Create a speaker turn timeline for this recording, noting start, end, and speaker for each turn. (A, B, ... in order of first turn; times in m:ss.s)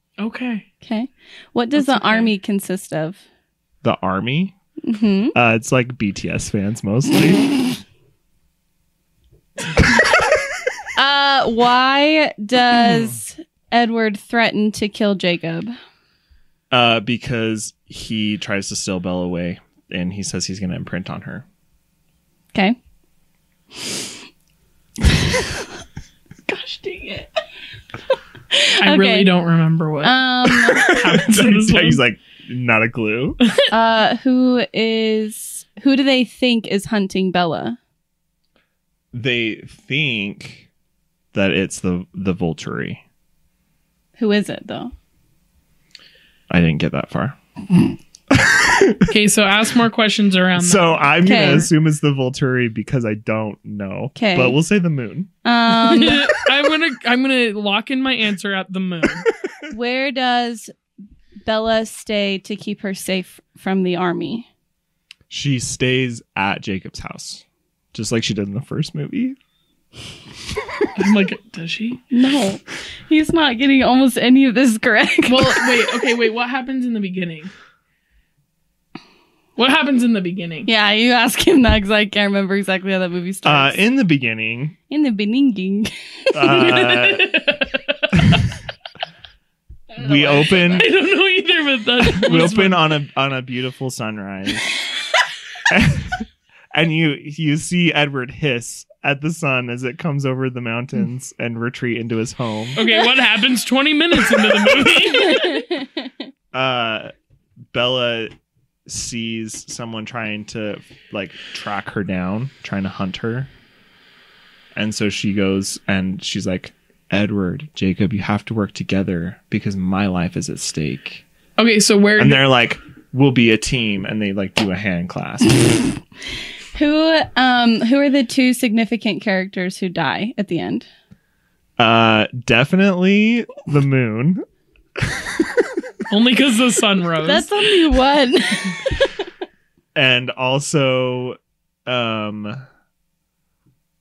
0:00.2-0:00.7 A
0:00.8-0:03.2 B
0:01.8-0:02.3 A
0:03.8-0:04.6 C
0:04.8-0:05.4 B
0:05.3-0:07.5 C
0:11.0-0:15.7 B
0:16.7-0:21.4 C
0:25.1-0:25.6 B
0:26.5-0:27.3 B
0:28.5-0:29.3 B
0:28.8-0:32.0 A
0:30.0-0:31.0 B
0:30.9-0:33.4 C
0:33.7-0:37.8 B
0:39.1-0:40.7 C
0:41.3-0:43.0 C
0:44.2-0:44.9 B
0:46.5-0:47.4 C
0:48.3-0:49.1 C
0:49.1-0:51.6 A
0:50.6-0:55.3 C
0:51.2-0:51.7 B
0:54.2-0:54.6 B
0:55.4-0:56.3 B
0:55.7-0:59.3 A
0:59.7-1:00.7 B
1:01.4-1:04.5 B
1:05.3-1:09.4 C
1:11.0-1:12.0 A
1:12.1-1:15.9 B
1:15.3-1:17.5 A
1:19.6-1:20.7 A
1:20.7-1:23.8 B
1:23.4-1:24.8 C
1:24.9-1:27.0 B
1:26.3-1:27.4 C
1:26.5-1:28.4 A
1:29.9-1:30.7 B
1:30.0-1:30.9 C
1:30.6-1:32.9 A
1:32.0-1:34.7 C
1:35.7-1:42.8 C
1:42.8-1:45.6 A
1:45.2-1:46.1 B
1:46.5-1:47.1 C
1:47.7-1:48.3 C
1:48.9-1:53.5 C
1:54.8-2:01.2 C
2:01.6-2:02.4 A
2:02.2-2:05.9 C
2:06.8-2:10.9 B
2:11.8-2:14.4 C
2:15.0-2:15.4 C
2:16.1-2:17.5 A
2:17.2-2:19.2 B
2:20.0-2:22.6 C